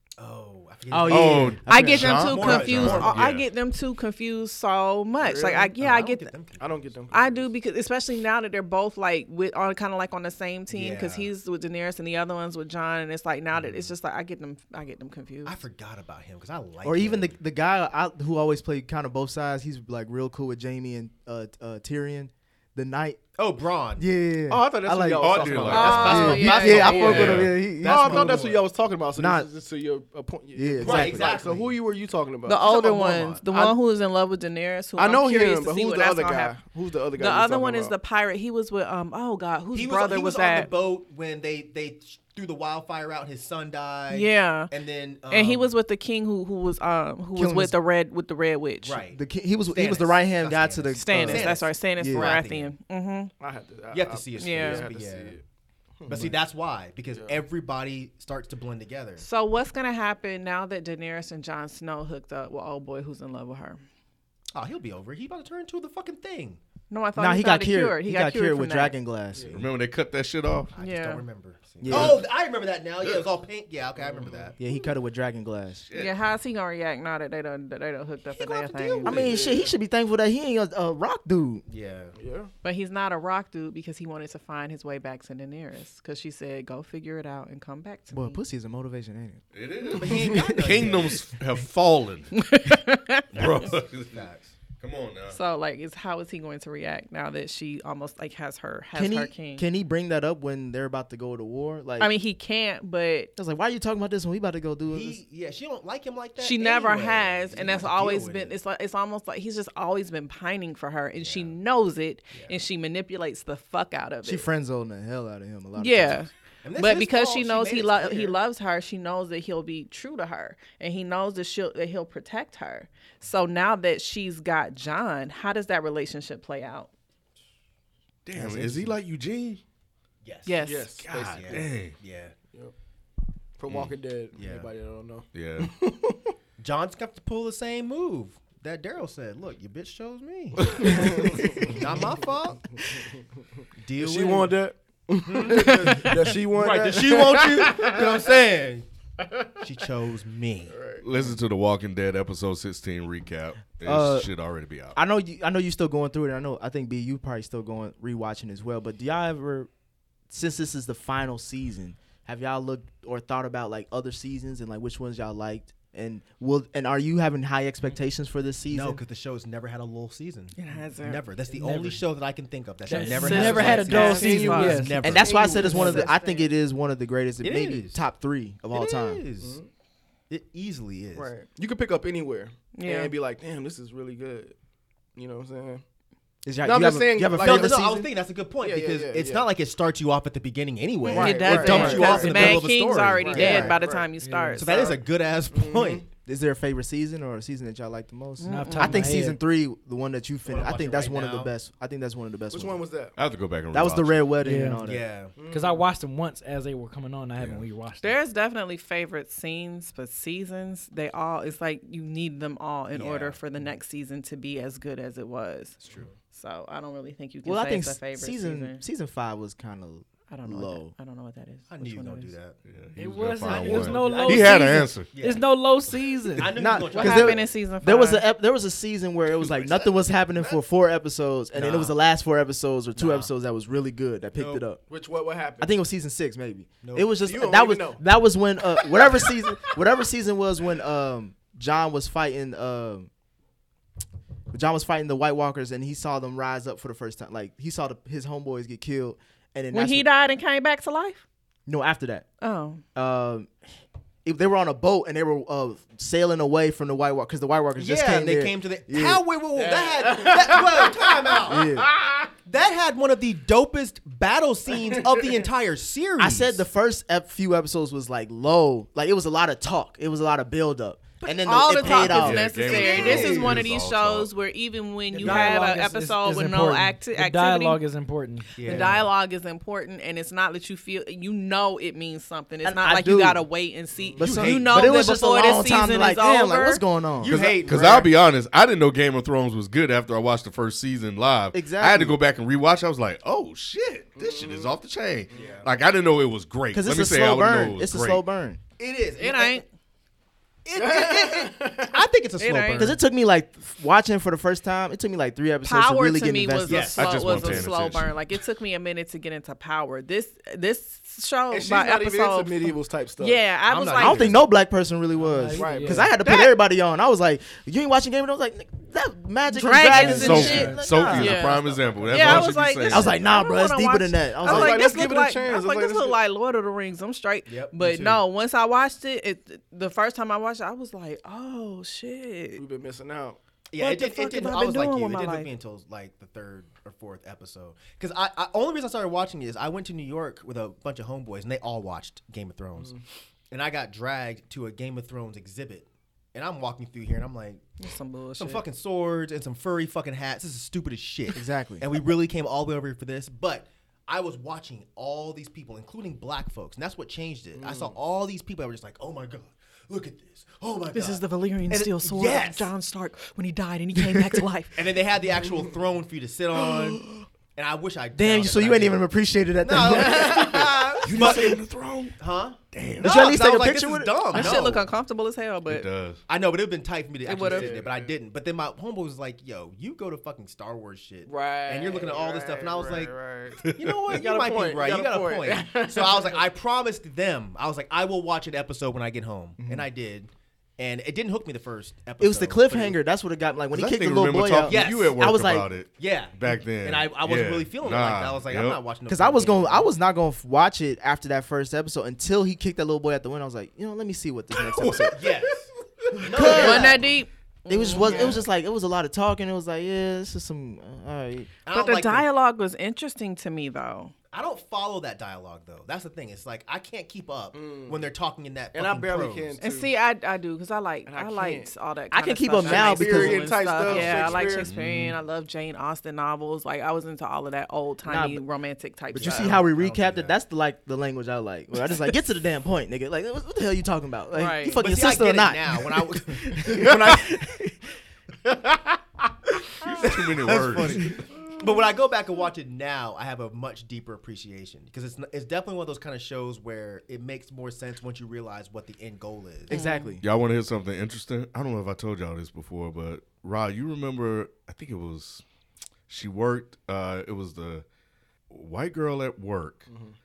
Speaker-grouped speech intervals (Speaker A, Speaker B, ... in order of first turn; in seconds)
Speaker A: 0.2-3.2, 5.8-6.9, 10.7-11.3, 13.5-13.9, 15.4-17.4, 23.4-24.1, 25.3-28.6, 30.8-31.7, 39.7-45.8, 48.8-52.7, 53.9-55.4, 56.1-59.2, 64.5-66.6, 70.7-74.6, 78.3-79.3, 81.7-82.1, 89.9-91.2, 93.4-94.5, 104.9-108.5, 111.2-111.5, 116.6-118.4, 128.3-128.9, 130.2-130.6, 131.2-132.3, 134.4-134.7, 136.6-143.0, 143.8-144.6, 145.2-148.9, 149.6-150.8, 168.7-176.0, 177.4-178.0, 178.7-179.6, 180.3-181.3, 187.4-193.8, 194.6-196.1, 200.5-201.5, 204.8-205.3, 212.9-213.4, 215.8-216.1, 221.7-222.6, 223.4-224.3, 225.1-225.4, 226.4-227.5, 229.4-230.6, 234.3-234.7, 236.8-237.1, 257.8-261.7, 262.4-266.6, 271.2-273.8, 275.2-275.6, 278.6-279.0, 284.2-285.1, 287.2-288.1, 295.3-295.7, 298.8-299.6, 300.6-303.0, 306.7-307.7, 313.7-314.4, 321.1-322.5, 327.5-328.2, 333.7-342.9, 343.5-347.7, 348.4-362.7, 364.8-367.0, 367.6-369.1, 369.6-371.6, 372.2-374.9, 376.3-392.9, 394.7-395.2, 395.9-399.9, 404.8-407.2, 408.0-408.4, 411.6-412.3, 414.3-419.6, 423.8-424.5, 429.2-430.3, 434.8-437.4, 439.8-449.7
Speaker B: 0.9-2.6, 16.8-23.2, 24.0-28.4, 29.2-29.5, 30.6-31.5, 47.3-47.8, 49.1-52.4, 67.2-69.6, 71.8-72.2, 74.6-75.9, 79.0-81.7, 88.1-89.4, 98.9-102.1, 103.4-105.2, 114.2-116.3, 153.8-154.3, 154.9-159.7, 160.3-169.0, 175.0-179.2, 186.4-188.1, 191.7-192.0, 193.3-193.8, 196.2-202.8, 203.7-205.1, 217.4-220.9, 226.5-234.8, 235.6-243.1, 244.5-250.1, 251.7-252.3, 252.9-253.5, 254.2-259.2, 261.5-261.9, 266.2-272.5, 275.2-275.7, 282.6-283.4, 284.2-287.4, 291.5-292.2, 296.7-298.6, 302.8-306.9, 314.0-321.5, 322.2-324.9, 351.3-351.9, 363.9-364.4, 368.2-371.6, 373.0-374.6, 389.6-389.9, 392.2-395.7, 399.1-405.2, 406.2-407.0, 407.7-411.5, 422.1-423.5, 428.1-428.4, 429.1-437.8, 449.7-450.2
Speaker C: 1.1-3.5, 25.2-27.6, 69.5-70.7, 71.9-72.2, 73.0-73.3, 75.9-76.2, 89.5-92.3, 93.3-95.4, 128.3-129.6, 131.1-132.0, 133.7-134.0, 135.3-135.7, 151.0-155.0, 203.2-204.3, 207.4-207.6, 222.7-225.1, 271.9-274.3, 287.3-298.2, 307.0-308.3, 320.1-323.1, 370.5-372.2, 372.7-373.3, 375.7-376.2, 383.6-384.1, 393.7-398.8, 424.6-425.2, 439.9-441.1, 450.2-455.4, 456.1-457.9, 458.5-459.9
Speaker D: 1.7-6.3, 7.1-15.6, 25.7-27.4, 32.5-36.6, 37.2-40.7, 44.1-44.7, 45.3-49.0, 51.0-53.3, 54.4-54.9, 59.2-63.8, 66.9-69.0, 70.8-71.2, 75.9-79.2, 82.6-88.4, 92.3-93.7, 95.3-99.7, 102.0-103.3, 106.4-114.5, 115.8-126.9, 130.5-131.0, 145.8-146.2, 170.6-171.2, 173.2-174.8, 175.6-176.5, 182.8-183.1, 191.1-195.0, 198.4-199.1, 208.0-215.8, 216.3-218.8, 220.3-222.3, 226.9-228.3, 249.7-251.2, 252.4-252.8, 271.3-277.8, 278.6-286.8, 299.2-299.7, 302.4-302.9, 305.6-314.3, 319.5-332.6, 333.8-335.5, 347.8-348.6, 360.9-364.8, 374.3-375.9, 377.3-377.7, 406.4-408.4, 411.7-414.1, 419.6-429.6, 434.3-434.8, 449.7-450.1
Speaker E: 5.2-5.7, 6.6-7.5, 24.5-26.9, 27.7-33.8, 35.0-38.0, 53.4-55.4, 56.0-56.4, 57.1-57.4, 69.3-69.6, 74.0-74.4, 79.1-79.7, 82.2-82.5, 89.8-90.4, 130.6-131.6, 133.6-136.3, 140.6-142.2, 142.7-143.2, 143.9-148.3, 149.2-149.7, 150.7-151.1, 173.0-176.3, 179.4-179.7, 181.2-184.6, 185.2-185.8, 186.6-187.8, 188.6-189.5, 191.1-194.1, 195.5-196.1, 202.5-203.2, 205.3-205.9, 231.5-231.9, 234.9-235.7, 237.2-238.0, 238.9-239.7, 259.6-260.6, 261.9-262.2, 287.4-288.1, 294.2-294.8, 295.3-295.6, 300.8-302.0, 311.5-313.4, 315.5-316.5, 324.4-326.2, 332.6-333.4, 342.8-343.0, 357.6-358.0, 369.9-370.5, 377.4-378.1, 381.3-386.5, 417.5-418.1, 418.7-419.9, 421.1-421.7, 422.6-424.7, 429.3-429.6, 438.5-438.9, 459.9-460.2
Speaker F: 171.5-172.0, 172.9-175.2, 191.6-192.1, 194.2-194.8, 198.4-199.4, 204.4-204.8, 205.5-208.2, 222.9-226.6, 275.2-279.1, 315.2-316.1, 319.8-320.9